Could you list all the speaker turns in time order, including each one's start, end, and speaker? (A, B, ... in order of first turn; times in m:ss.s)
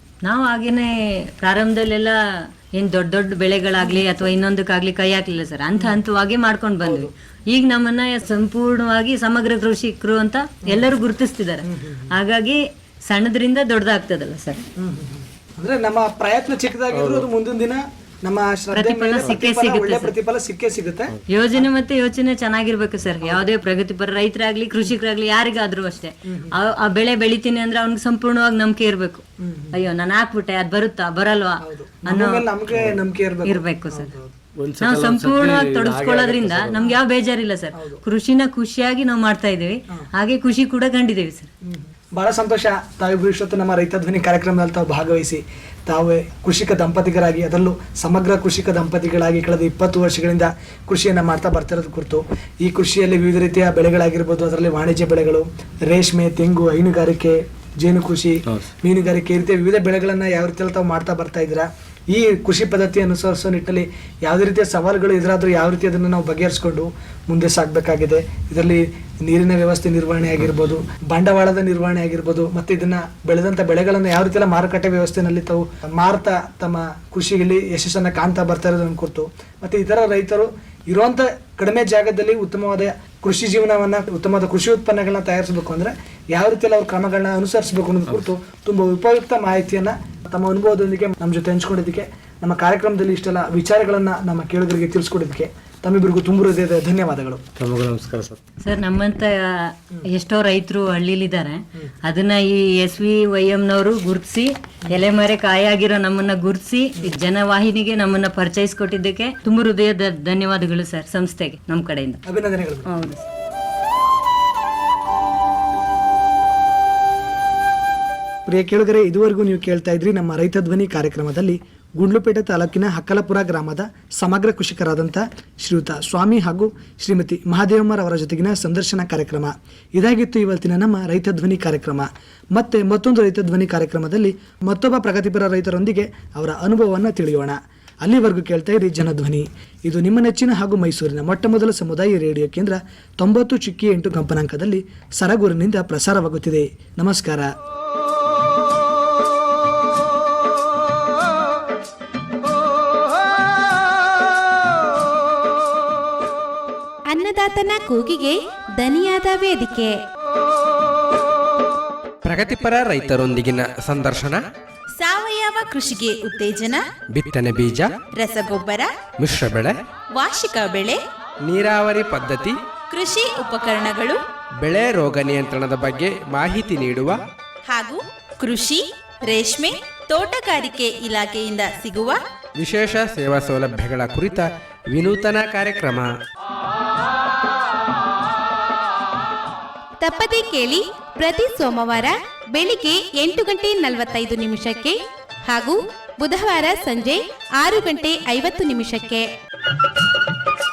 0:00.2-0:14.6 A
0:06.8-0:07.1 B
0:11.6-0:12.1 B
0:14.8-0:21.6 B
0:16.9-0:17.2 C
0:18.7-0:20.1 A
0:21.3-0:32.5 A
0:26.2-0:26.5 B
0:29.4-0:29.8 B
0:31.6-0:34.3 B
0:32.7-0:33.0 C
0:33.4-0:34.1 A
0:34.6-0:36.8 C
0:34.8-0:41.5 A
0:37.7-0:38.0 B
0:41.6-1:37.4 B
1:37.6-1:38.4 C
1:38.6-1:52.2 A
1:52.2-1:52.9 B
1:52.9-1:53.3 A
1:58.4-2:27.5 B
2:37.1-2:40.0 D
2:42.2-2:44.4 E
2:45.0-2:46.8 D
2:47.1-2:47.9 E
2:48.1-2:48.9 D
2:49.2-2:49.8 E
2:50.2-2:51.0 D
2:51.4-2:52.6 E
2:52.9-2:54.2 D
2:54.6-2:57.2 E
2:57.7-3:02.2 D
3:02.6-3:06.1 E
3:10.0-3:19.3 D